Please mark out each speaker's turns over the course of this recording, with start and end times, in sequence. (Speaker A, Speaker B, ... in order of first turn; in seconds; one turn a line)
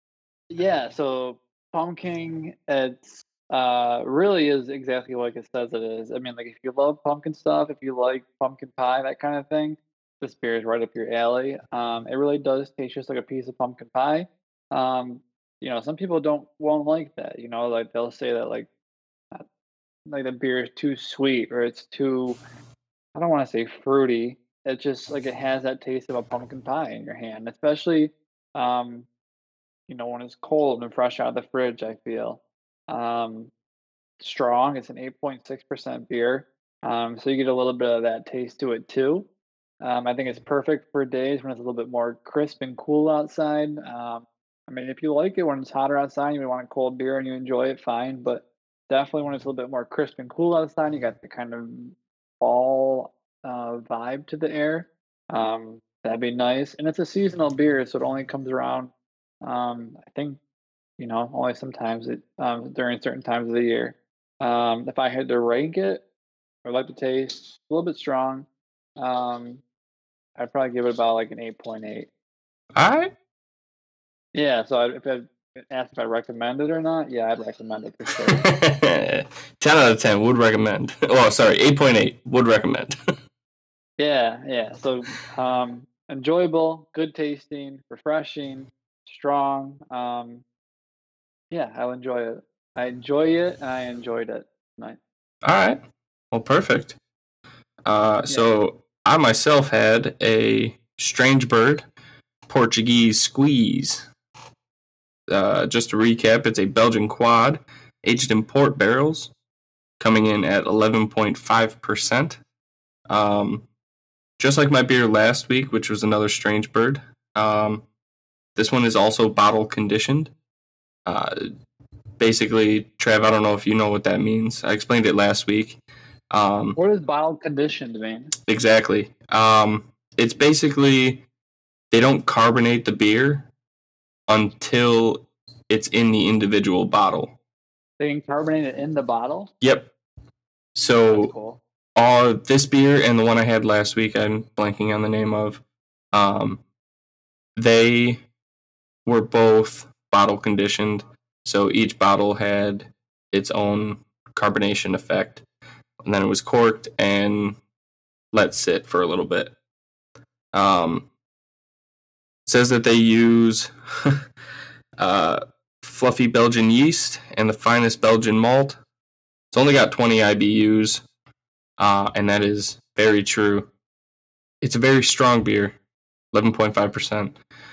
Speaker A: 0.5-18.7
Speaker A: 20.1-22.4
Speaker A: 23.1-29.1
Speaker A: 29.9-33.5
Speaker A: 34.2-39.3
Speaker A: 39.8-58.9
Speaker A: 59.4-60.4
Speaker A: 61.0-66.0
Speaker A: 66.7-68.5
Speaker A: 69.0-69.6
Speaker A: 70.4-72.1
Speaker B: 72.8-73.1
Speaker A: 74.3-78.4
Speaker B: 78.3-82.9
Speaker A: 84.0-90.4
Speaker A: 91.5-95.0
Speaker B: 95.4-95.8
Speaker B: 96.3-97.0
Speaker B: 97.9-101.9
Speaker B: 102.5-104.1
Speaker B: 105.3-109.3
Speaker B: 110.0-112.4
Speaker B: 113.1-113.7
Speaker B: 114.4-117.8
Speaker B: 118.6-120.3
Speaker B: 121.1-121.4
Speaker B: 122.2-125.8
Speaker B: 126.3-126.8
Speaker A: 126.8-128.3
Speaker B: 128.5-131.2
Speaker B: 131.9-133.5
Speaker B: 134.3-137.3
Speaker A: 138.0-139.5
Speaker B: 139.6-139.9
Speaker B: 140.7-141.3
Speaker A: 141.1-141.6
Speaker B: 141.9-145.6
Speaker B: 146.1-146.6
Speaker B: 147.6-148.2
Speaker B: 149.1-155.4
Speaker B: 156.1-157.6
Speaker B: 158.3-159.5
Speaker B: 160.5-161.1
Speaker B: 162.4-164.2
Speaker B: 165.0-168.8
Speaker B: 169.5-171.0
Speaker B: 171.8-173.7
Speaker B: 174.6-175.8
Speaker B: 176.3-177.4